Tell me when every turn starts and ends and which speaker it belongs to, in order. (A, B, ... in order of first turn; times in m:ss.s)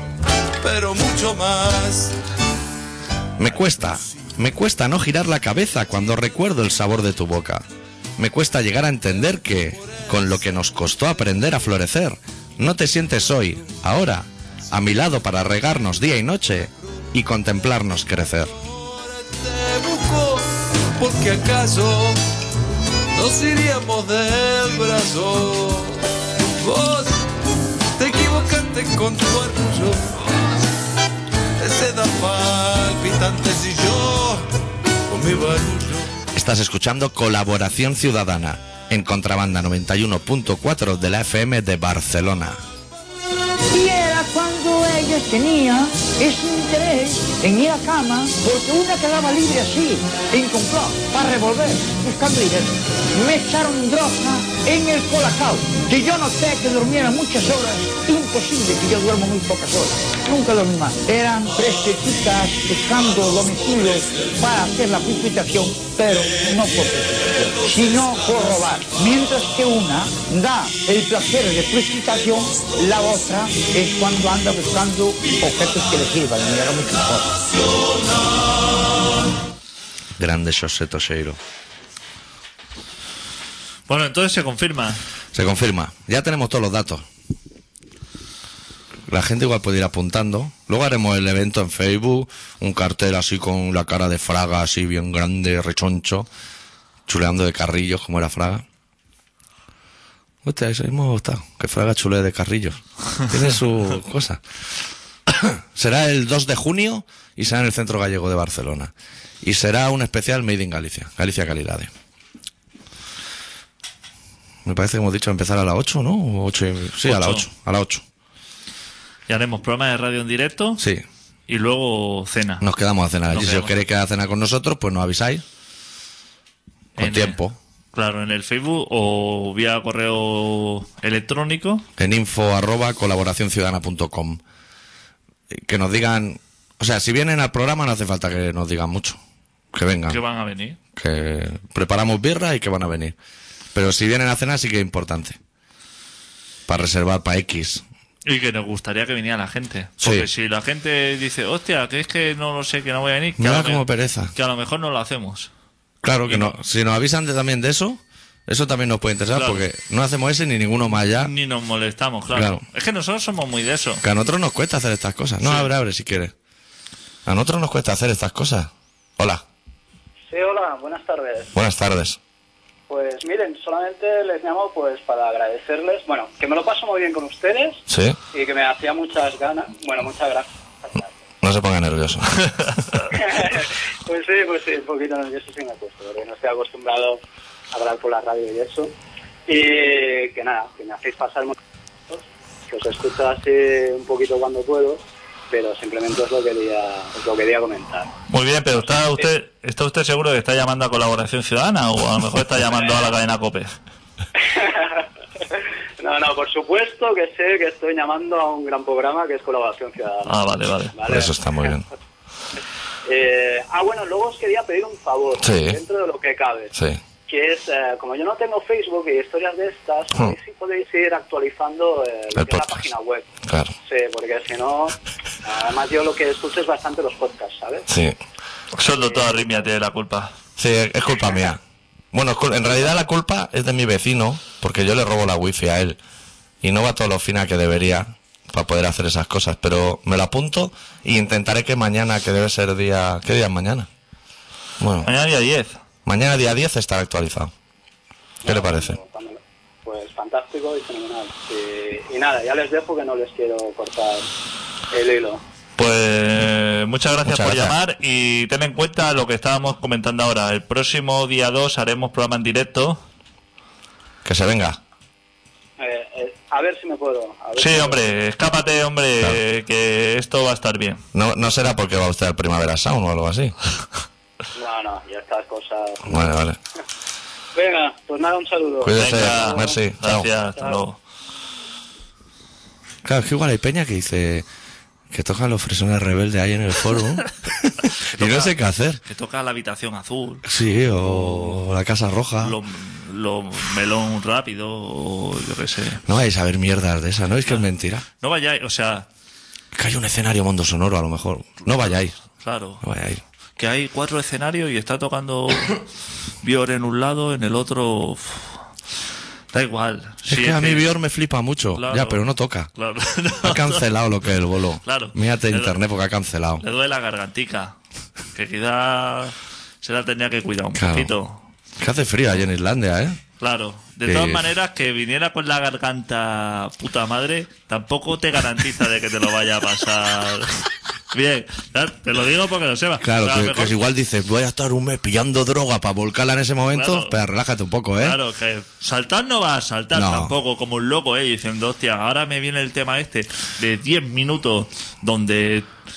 0:00.6-0:02.2 A
0:03.4-0:07.6 B
0:08.2-0:18.6 B
0:19.1-0:22.2 A
0:23.1-0:26.1 A
0:26.6-0:27.3 A
0:28.0-0:30.6 A
0:31.6-0:34.5 A
0:35.1-0:36.1 A
0:36.3-0:42.6 B
0:43.7-1:17.4 C
1:20.2-1:21.4 B
1:23.9-1:25.0 D
1:25.3-1:27.1 B
1:29.1-1:36.3 B
1:37.1-1:38.6 B
1:40.4-1:44.4 B
1:45.3-1:51.9 B
1:54.6-1:58.0 B
1:57.0-1:57.5 D
1:59.3-2:00.8 D
2:00.8-2:01.0 B
2:01.5-2:02.6 D
2:02.6-2:05.4 B
2:03.3-2:03.8 D
2:07.0-2:07.4 D
2:07.0-2:07.6 B
2:07.9-2:11.9 D
2:12.0-2:14.4 B
2:15.5-2:19.2 B
2:19.7-2:20.2 B
2:20.1-2:20.8 D
2:20.9-2:23.2 B
2:23.7-2:25.4 B
2:26.7-2:27.8 B
2:28.3-2:35.5 D
2:30.0-2:30.3 B
2:33.4-2:34.3 B
2:36.0-2:41.3 B
2:36.3-2:36.6 D
2:39.3-2:39.6 D
2:41.1-2:44.0 D
2:42.3-2:42.6 B
2:44.0-2:46.3 B
2:45.4-2:45.7 D
2:47.3-2:49.4 B
2:50.3-2:51.6 E
2:51.6-2:52.2 B
2:52.9-2:57.8 E
2:57.9-2:58.2 B
2:58.3-3:01.1 E
3:01.4-3:02.4 B
3:03.1-3:07.2 E
3:07.7-3:08.9 E
3:09.5-3:11.6 E
3:12.1-3:18.1 E
3:18.3-3:23.7 D
3:24.4-3:31.3 E
3:30.3-3:31.0 D
3:31.1-3:31.9 B
3:33.0-3:36.7 E
3:35.4-3:35.8 B
3:37.3-3:43.3 E
3:42.4-3:42.8 B
3:43.5-3:43.7 B
3:43.8-3:47.9 E
3:47.9-3:48.2 B
3:48.7-3:50.3 D
3:50.6-3:51.6 B
3:52.1-3:56.0 B
3:56.6-4:03.9 B
4:04.8-4:05.1 B
4:05.0-4:05.8 D
4:06.1-4:07.5 B
4:08.4-4:14.3 E
4:08.4-4:09.0 B
4:14.9-4:15.4 E
4:15.8-4:23.0 D
4:17.3-4:17.8 B
4:24.2-4:24.8 B
4:25.8-4:28.0 E
4:27.6-4:31.0 D
4:31.1-4:33.6 B
4:34.6-4:36.3 E
4:36.1-4:36.6 B
4:37.6-4:39.8 E
4:38.8-4:40.3 B
4:38.9-4:41.0 D
4:43.0-4:44.5 B
4:45.1-4:49.0 B
4:47.9-4:50.5 D
4:50.4-4:52.6 B
4:51.0-4:51.6 D
4:52.4-4:56.0 D
4:56.0-4:58.0 B
4:58.2-4:59.1 D
4:59.7-5:02.2 B
5:02.4-5:02.8 D
5:02.8-5:03.2 B
5:03.6-5:05.8 D
5:06.4-5:08.6 D
5:09.5-5:10.9 D
5:10.3-5:12.7 B
5:11.8-5:12.2 D
5:12.8-5:13.8 D
5:13.4-5:16.6 B
5:14.8-5:15.8 D
5:16.6-5:17.8 D
5:18.4-5:21.4 D
5:20.8-5:21.1 B
5:21.8-5:23.2 B
5:23.4-5:33.8 D
5:24.0-5:24.4 B
5:33.0-5:38.2 B
5:36.7-5:37.2 D
5:38.0-5:45.7 D
5:39.9-5:40.3 B